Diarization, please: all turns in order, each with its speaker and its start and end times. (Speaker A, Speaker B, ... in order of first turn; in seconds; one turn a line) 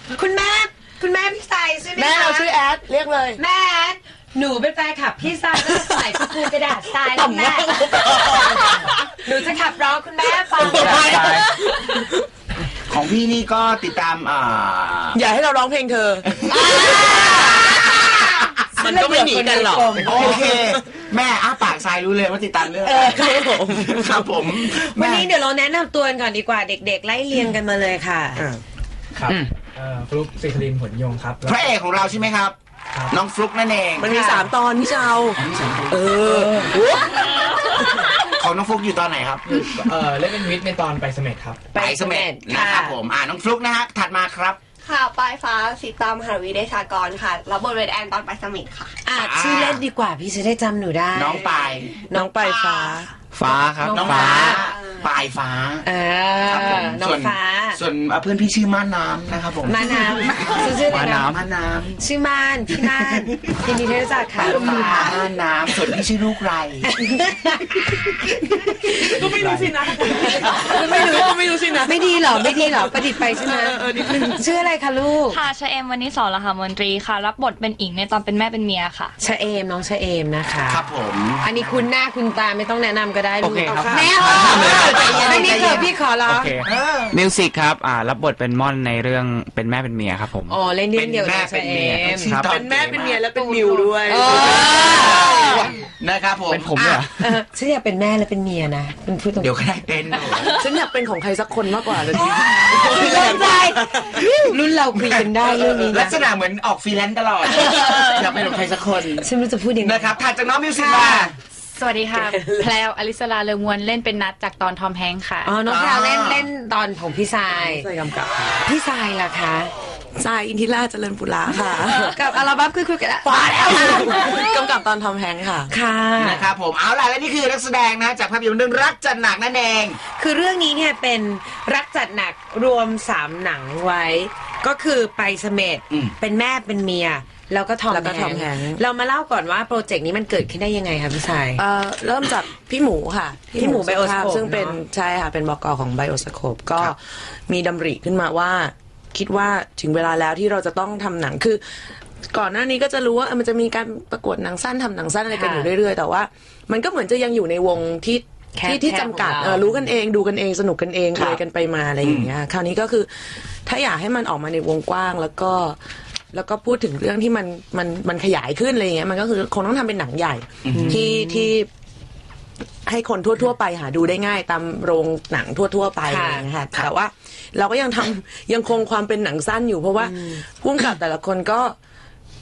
Speaker A: 0.1-2.5
Speaker B: 2.0-3.4
Speaker A: 3.4-8.7
Speaker B: 5.6-6.5
Speaker B: 7.1-8.9
Speaker A: 9.2-11.2
Speaker C: 10.6-11.6
Speaker B: 10.7-11.1
Speaker B: 11.8-12.1
Speaker D: 12.9-15.2
Speaker B: 15.1-17.3
Speaker D: 16.4-17.0
Speaker A: 16.5-20.4
Speaker B: 18.8-20.9
Speaker D: 20.0-25.3
Speaker B: 22.9-24.3
Speaker A: 22.9-23.6
Speaker A: 24.8-28.5
Speaker B: 28.4-28.6
Speaker E: 29.2-32.2
Speaker D: 31.4-32.6
Speaker E: 32.9-33.2
Speaker D: 33.1-34.1
Speaker B: 34.0-37.1
Speaker A: 34.0-34.5
Speaker D: 35.4-36.1
Speaker A: 36.3-36.8
Speaker D: 38.3-39.6
Speaker E: 39.6-41.7
Speaker A: 41.7-43.0
Speaker D: 41.8-44.6
Speaker F: 44.8-48.9
Speaker A: 49.0-52.5
Speaker D: 49.1-49.8
Speaker D: 51.1-52.0
Speaker B: 52.1-53.1
Speaker C: 53.3-54.6
Speaker A: 53.8-54.6
Speaker D: 53.9-55.9
Speaker F: 54.7-55.1
Speaker A: 55.8-57.8
Speaker D: 56.5-62.0
Speaker A: 59.6-61.3
Speaker C: 60.9-61.4
Speaker A: 62.0-65.2
Speaker D: 62.8-63.5
Speaker D: 64.4-66.9
Speaker B: 64.8-65.1
Speaker A: 66.9-68.2
Speaker B: 68.7-74.5
Speaker E: 69.4-69.7
Speaker A: 70.2-75.4
Speaker G: 75.3-79.1
Speaker A: 79.2-80.9
Speaker D: 80.7-81.9
Speaker A: 81.4-86.6
Speaker C: 83.4-85.2
Speaker B: 83.7-85.7
Speaker D: 84.3-85.9
Speaker C: 86.2-90.5
Speaker D: 86.6-87.2
Speaker A: 90.5-92.4
Speaker D: 90.9-93.2
Speaker C: 92.2-92.7
Speaker B: 92.5-95.5
Speaker A: 93.0-95.6
Speaker D: 95.0-97.0
Speaker C: 96.5-97.1
Speaker A: 97.2-100.5
Speaker D: 99.4-100.5
Speaker B: 100.4-104.1
Speaker A: 102.2-106.2
Speaker D: 104.0-109.3
Speaker A: 107.6-107.9
Speaker A: 109.2-110.2
Speaker D: 109.8-111.4
Speaker A: 110.7-111.3
Speaker H: 111.8-115.5
Speaker A: 115.5-117.9
Speaker D: 115.7-116.4
Speaker B: 117.5-118.6
Speaker A: 118.6-119.7
Speaker B: 120.2-122.2
Speaker A: 121.9-124.5
Speaker B: 123.3-125.7
Speaker A: 125.7-126.5
Speaker D: 126.2-130.0
Speaker A: 130.2-141.6
Speaker B: 137.9-138.8
Speaker B: 141.6-151.6
Speaker A: 143.6-144.8
Speaker B: 152.3-165.8
Speaker A: 155.3-155.7
Speaker A: 158.6-159.7
Speaker D: 161.2-161.4
Speaker D: 162.0-162.3
Speaker B: 166.3-171.7
Speaker D: 170.7-171.0
Speaker A: 170.7-171.5
Speaker B: 172.9-181.8
Speaker A: 176.1-176.5
Speaker A: 180.0-180.4